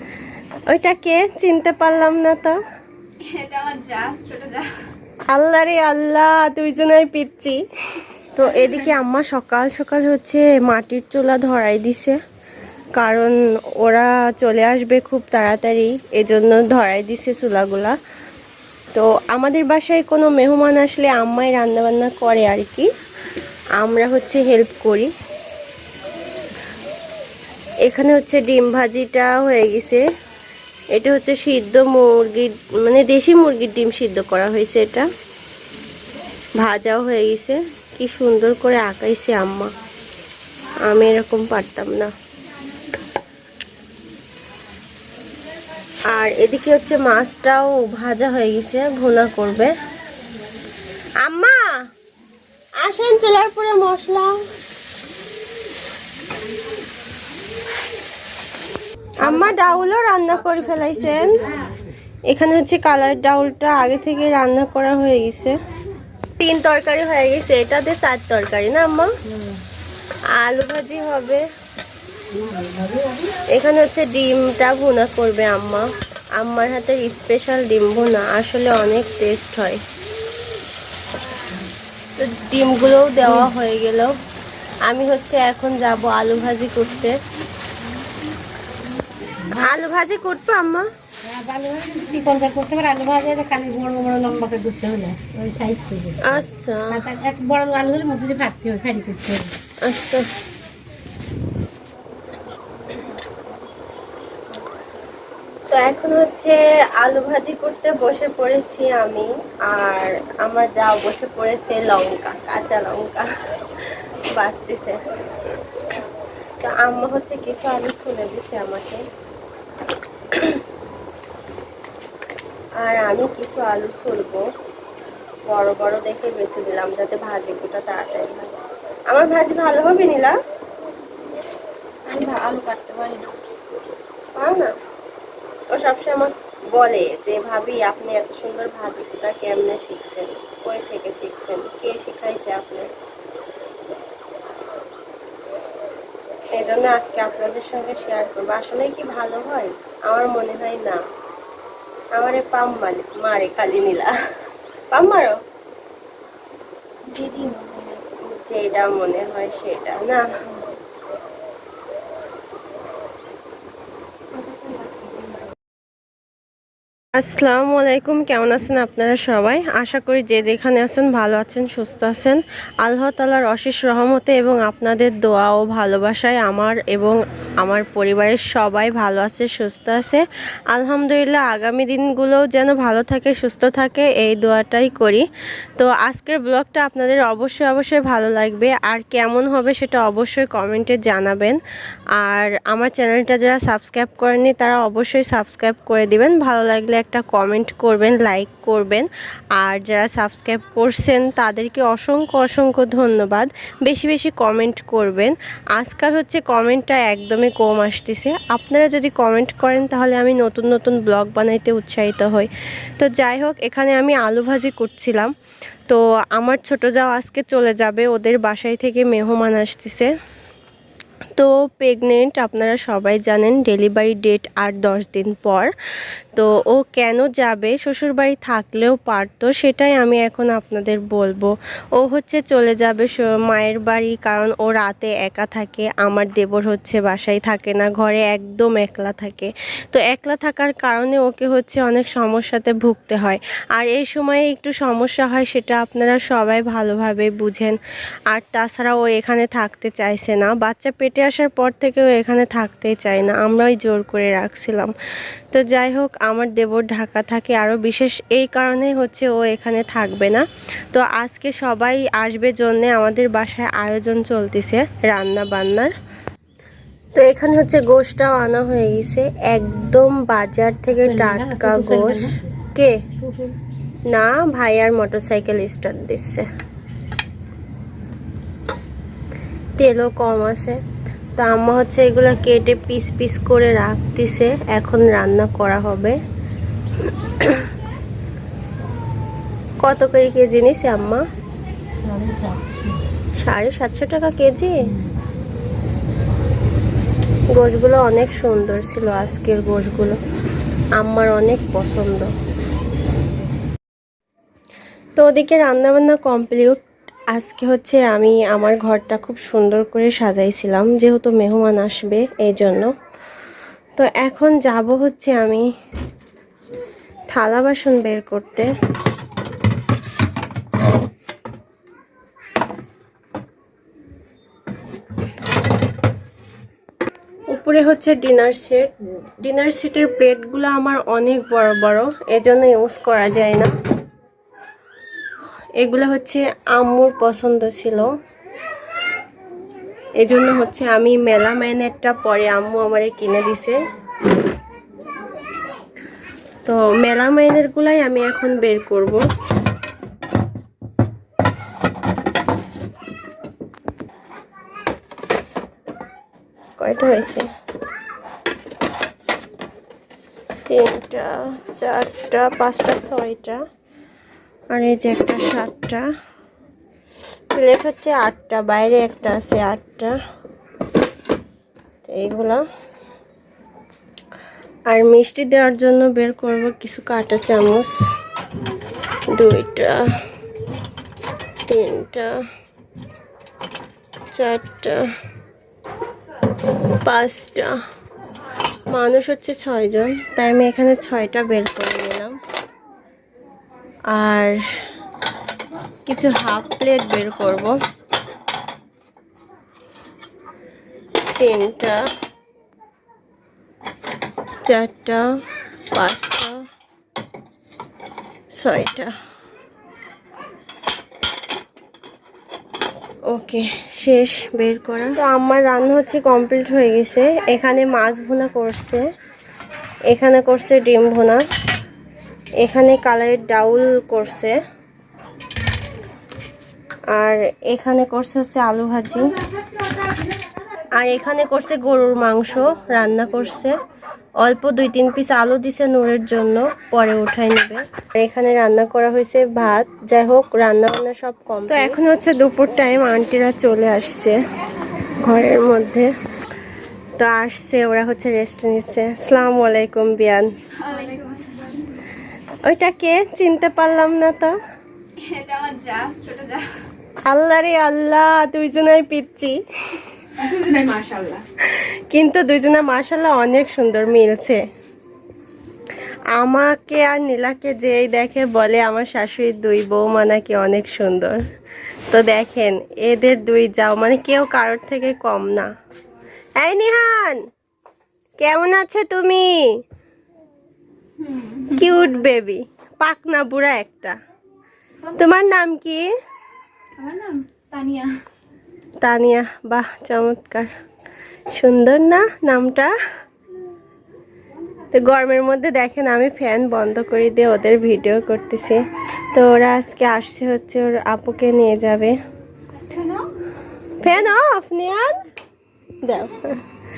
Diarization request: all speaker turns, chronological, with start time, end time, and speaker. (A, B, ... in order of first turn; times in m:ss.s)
0:00.7-0:02.6 A
0:03.2-0:04.7 B
0:05.3-0:07.6 A
0:08.3-0:12.2 A
0:13.0-0:18.0 A
0:18.9-0:22.9 A
0:23.8-0:25.1 A
0:27.8-0:30.0 A
0:30.9-0:35.1 A
0:36.6-0:39.7 A
0:40.8-0:42.1 A
0:46.1-0:49.7 A
0:51.2-0:51.7 A
0:52.8-0:54.4 A
0:59.2-1:01.4 A
1:02.3-1:05.6 A
1:06.4-1:09.1 A
1:10.3-1:11.4 A
1:12.5-1:13.0 C
1:13.5-1:19.8 A
1:22.2-1:24.1 A
1:24.9-1:27.1 A
1:29.5-1:30.9 A
1:31.3-1:39.5 C
1:36.2-1:37.0 A
1:39.8-1:40.2 A
1:45.7-1:53.3 A
1:54.4-1:55.0 A
1:56.6-1:59.0 A
2:00.3-2:00.6 A
2:02.8-2:04.4 A
2:05.5-2:08.6 A
2:09.1-2:10.4 A
2:12.1-2:13.5 A
2:14.4-2:14.7 A
2:15.7-2:22.9 A
2:26.5-2:31.0 A
2:32.1-2:34.1 A
2:34.9-2:35.4 A
2:37.1-2:40.2 A
2:47.1-3:11.6 A
3:12.2-3:35.3 A
3:35.9-3:40.1 A
3:41.4-3:45.7 A
3:46.4-4:07.8 A
4:08.3-4:14.9 A
4:15.5-4:25.9 A
4:27.1-4:33.0 A
4:30.9-4:32.6 C
4:33.2-4:33.5 C
4:34.1-4:36.4 A
4:39.8-4:40.8 A
4:41.4-4:46.2 A
4:49.8-4:51.2 A
4:52.0-4:53.0 C
4:53.4-4:54.7 A
4:57.5-5:00.2 A
5:01.0-5:02.3 A
5:05.2-5:12.9 A
5:14.0-5:15.7 A
5:17.3-5:18.7 A
5:27.5-5:33.7 A
5:35.8-5:38.1 A
5:40.2-5:43.8 A
5:46.6-5:49.2 A
5:56.8-5:57.5 A
6:00.7-6:03.6 A
6:04.7-6:06.0 A
6:07.5-6:10.2 A
6:12.0-6:12.6 A
6:14.9-6:17.9 A
6:19.3-6:20.1 A
6:21.7-6:22.4 A
6:24.3-6:25.1 A
6:27.0-6:27.8 A
6:28.9-6:32.4 A
6:34.1-6:34.6 A
6:36.0-6:37.8 A
6:41.2-6:42.0 A
6:44.6-6:45.3 A
6:45.9-6:46.6 A
6:48.5-6:49.1 A
6:53.3-6:59.0 A
7:00.1-7:01.4 A
7:02.6-7:04.6 A
7:07.1-7:09.2 A
7:11.0-7:13.7 A
7:14.4-7:24.4 A
7:25.2-7:26.1 A
7:27.2-7:30.5 A
7:30.8-7:31.7 B
7:32.6-7:34.5 A
7:35.2-7:36.7 B
7:37.3-7:40.0 A
7:40.4-7:41.4 B
7:41.6-7:44.6 A
7:46.3-7:51.4 A
7:52.1-7:55.7 A
7:56.6-7:57.4 A
7:58.4-7:59.6 A
8:01.5-8:04.2 A
8:05.1-8:06.1 A
8:07.0-8:08.1 B
8:09.0-8:10.7 A
8:11.5-8:12.9 A
8:14.9-8:18.8 A
8:19.3-8:22.2 A
8:24.0-8:25.1 A
8:26.0-8:26.6 A